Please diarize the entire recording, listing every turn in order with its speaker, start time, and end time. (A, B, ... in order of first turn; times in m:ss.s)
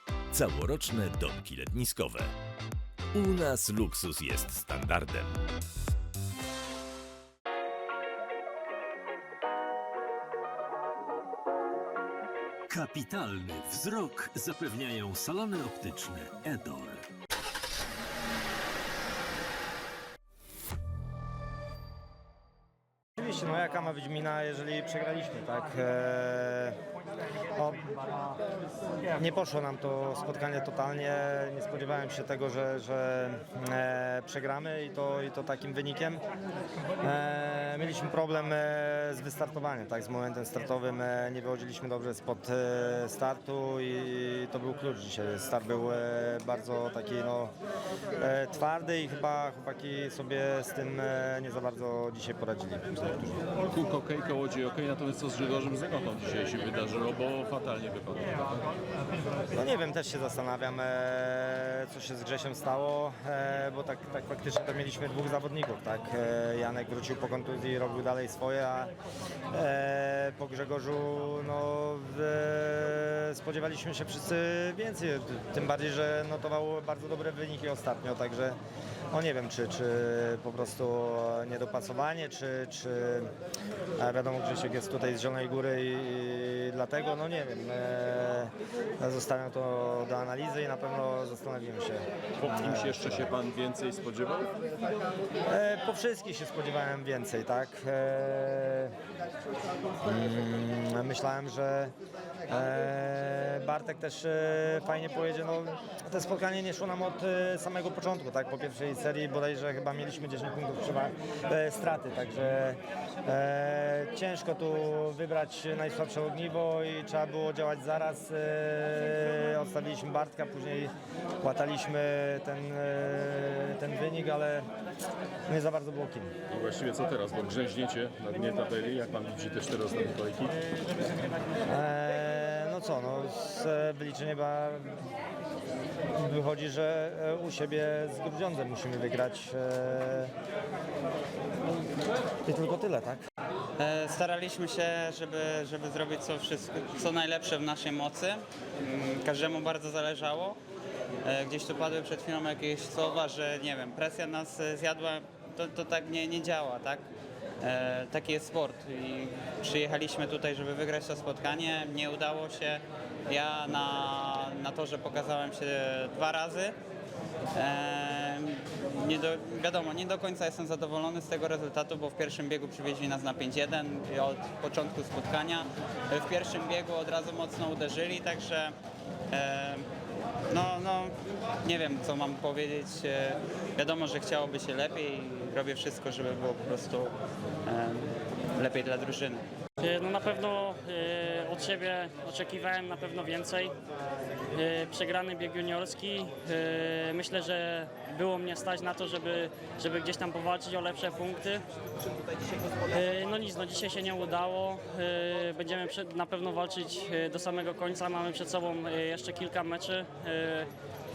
0:00.3-0:02.3 A
0:03.1-0:05.4 A
0:12.7-0:17.0 A
0:23.2-0:26.8 B
0:27.5-0:28.0 B
0:29.2-0:36.2 B
0:37.0-0:47.5 B
0:48.2-0:53.4 B
0:53.6-0:58.6 C
0:59.5-1:08.9 B
1:09.5-1:18.6 B
1:19.1-1:23.3 B
1:24.0-1:33.2 B
1:32.4-1:34.5 C
1:35.4-1:38.9 B
1:40.0-1:41.9 B
1:42.5-2:04.6 B
2:05.5-2:06.3 B
2:06.5-2:10.6 C
2:11.7-2:15.0 B
2:16.1-2:20.3 B
2:22.4-2:23.2 B
2:23.8-2:30.6 D
2:31.2-2:37.0 D
2:37.6-2:46.8 D
2:47.6-2:58.7 D
2:59.3-2:59.8 D
3:00.5-3:01.1 D
3:01.6-3:09.4 D
3:09.8-3:13.7 E
3:14.5-3:21.6 E
3:22.9-3:30.7 E